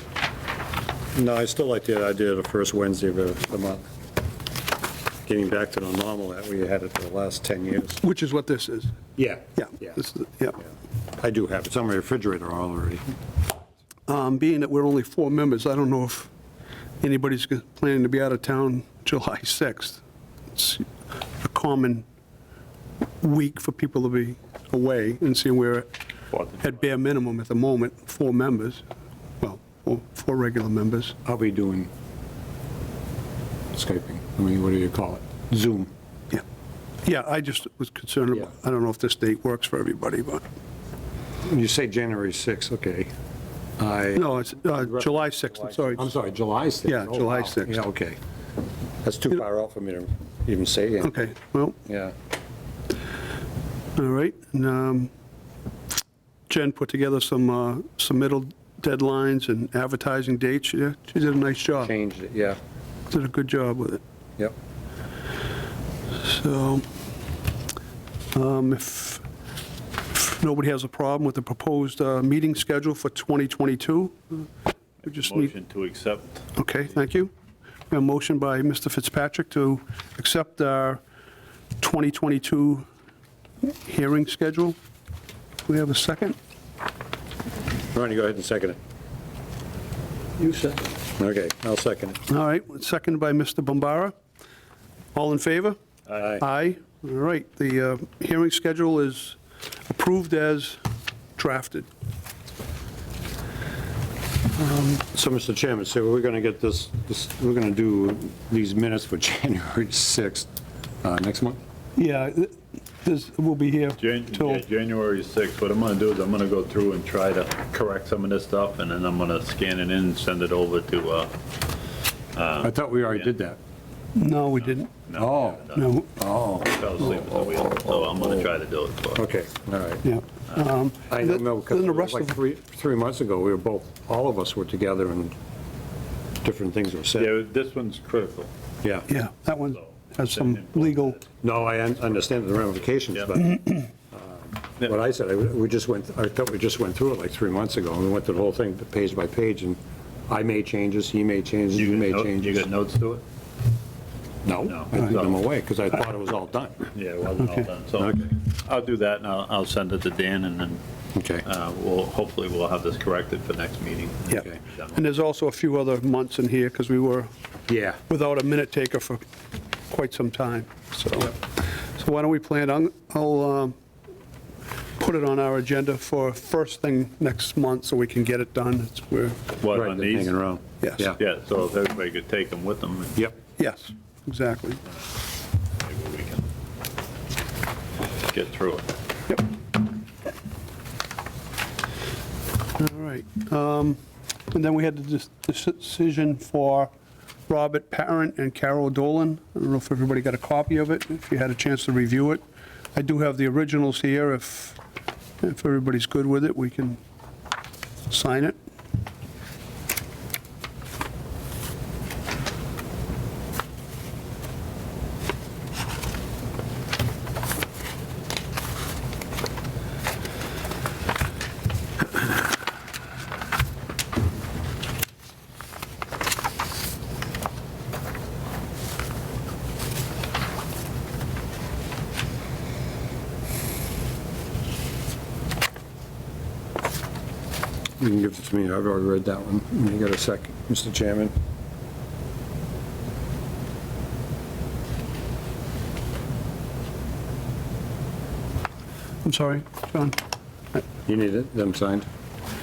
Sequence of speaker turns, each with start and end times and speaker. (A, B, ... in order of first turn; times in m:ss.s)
0:01.1-0:03.8 A
0:05.2-0:08.0 A
0:08.0-0:09.0 B
0:09.2-0:10.0 A
0:09.6-0:10.6 B
0:11.2-0:13.0 A
0:14.1-0:16.3 B
0:17.0-0:20.0 B
0:20.5-0:22.0 B
0:23.2-0:25.9 B
0:26.3-0:26.6 C
0:26.6-0:28.8 B
0:29.4-0:31.2 B
0:31.2-0:31.9 A
0:33.7-0:35.9 A
0:37.0-0:40.4 B
0:41.4-0:43.1 A
0:43.8-0:45.0 A
0:44.2-0:46.1 B
0:45.7-0:48.2 A
0:46.9-0:47.8 B
0:49.0-0:51.1 A
0:51.0-0:51.8 B
0:51.9-0:52.1 A
0:54.0-0:55.1 B
0:56.5-1:01.9 B
1:01.8-1:02.6 A
1:03.1-1:04.0 B
1:06.2-1:06.8 B
1:08.3-1:09.2 B
1:10.1-1:14.5 B
1:15.0-1:15.5 B
1:15.0-1:16.4 C
1:16.6-1:17.3 B
1:17.9-1:21.0 B
1:21.8-1:22.9 B
1:23.7-1:24.8 B
1:25.7-1:26.4 B
1:27.9-1:28.8 A
1:30.4-1:32.2 A
1:32.3-1:34.1 B
1:35.1-1:40.8 B
1:41.4-1:41.9 B
1:44.8-1:50.5 A
1:51.0-1:51.6 A
1:52.0-1:54.6 B
1:54.0-2:01.3 C
2:02.4-2:03.2 C
2:02.6-2:03.6 A
2:04.2-2:04.9 B
2:05.1-2:06.0 C
2:05.2-2:05.6 A
2:05.7-2:06.1 B
2:06.2-2:06.8 A
2:06.6-2:09.2 C
2:09.2-2:10.0 A
2:10.0-2:12.4 B
2:11.1-2:15.3 A
2:16.4-2:17.4 A
2:17.2-2:18.5 C
2:19.1-2:21.2 B
2:20.2-2:21.3 C
2:21.4-2:32.6 A
2:31.8-2:33.2 C
2:34.4-2:36.9 A
2:34.6-2:35.4 C
2:36.9-2:40.8 C
2:37.4-2:37.7 B
2:38.0-2:38.3 A
2:41.2-2:41.4 A
2:41.4-2:45.0 C
2:44.3-2:47.3 B
2:47.7-2:48.0 A
2:48.1-2:49.2 B
2:49.9-2:53.8 B
2:55.0-2:59.4 B
2:59.6-3:00.3 C
2:59.7-3:01.2 A
3:00.8-3:01.1 B
3:01.2-3:03.2 C
3:03.6-3:04.8 B
3:05.8-3:06.5 C
3:08.3-3:08.9 C
3:12.8-3:14.0 B
3:14.5-3:16.9 B
3:17.5-3:22.4 B
3:23.0-3:24.8 B
3:25.4-3:27.0 B
3:28.1-3:28.6 B
3:58.0-4:01.3 A
4:09.2-4:10.2 B
4:11.1-4:12.1 A